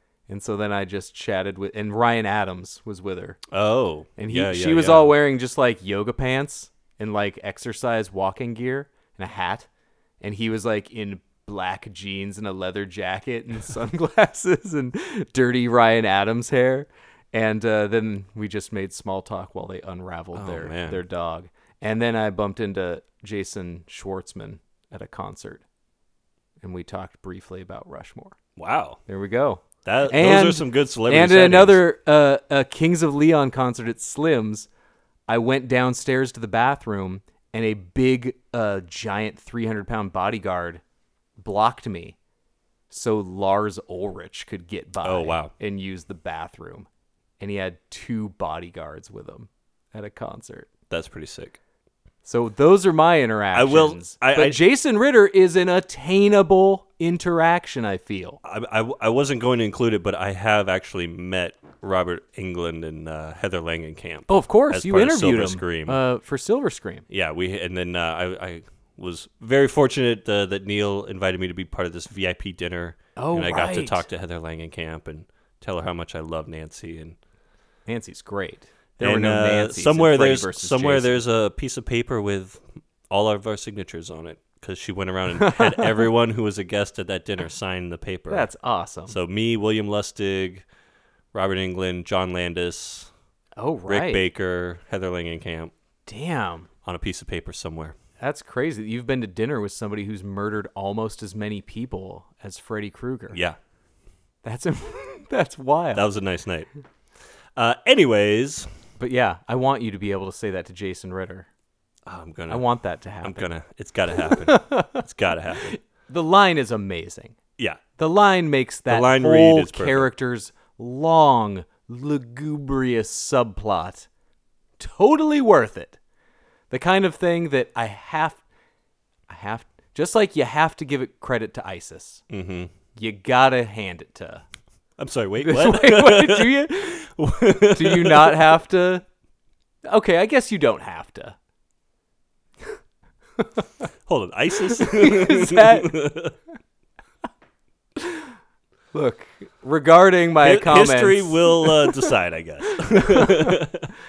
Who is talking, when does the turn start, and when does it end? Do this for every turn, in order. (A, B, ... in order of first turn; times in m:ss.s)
0:00.3-0:03.4 A
0:03.5-0:05.1 B
0:04.2-0:09.7 A
0:10.2-0:25.6 A
0:20.3-0:21.0 B
0:26.6-0:28.4 A
0:28.6-0:29.0 B
0:29.1-0:34.7 A
0:29.8-0:31.8 B
0:35.3-0:40.8 A
0:41.4-0:42.2 A
0:42.9-0:46.9 A
0:45.0-0:45.5 B
0:47.4-0:50.7 A
0:50.9-0:51.6 B
0:52.2-0:58.4 A
0:53.5-0:54.6 B
0:58.4-1:06.0 B
1:04.3-1:07.0 A
1:07.1-1:17.2 B
1:13.2-1:14.1 A
1:17.9-1:21.2 A
1:19.0-1:28.5 B
1:25.4-1:25.9 A
1:28.3-1:29.2 A
1:29.1-1:30.6 B
1:31.3-1:33.1 B
1:33.6-1:34.2 A
1:33.9-1:35.7 B
1:36.1-1:36.7 A
1:36.8-1:38.0 B
1:38.2-1:43.4 A
1:43.3-1:43.6 B
1:44.4-1:46.0 A
1:45.9-1:46.7 B
1:47.6-1:48.7 B
1:49.0-1:51.5 A
1:52.1-1:52.6 B
1:52.5-1:53.5 A
1:53.2-1:55.8 B
1:54.4-1:55.0 A
1:55.6-1:57.4 A
1:57.6-1:57.8 B
1:58.0-2:04.1 A
1:58.9-2:00.1 B
2:04.8-2:06.0 A
2:06.7-2:08.4 A
2:09.3-2:12.2 A
2:12.3-2:12.7 B
2:13.0-2:14.4 A
2:15.0-2:18.6 B
2:15.4-2:19.0 A
2:19.8-2:21.4 A
2:24.1-2:26.4 B
2:24.8-2:26.0 A
2:28.0-2:28.3 A
2:28.9-2:32.1 A
2:30.4-2:33.9 B
2:32.8-2:33.6 A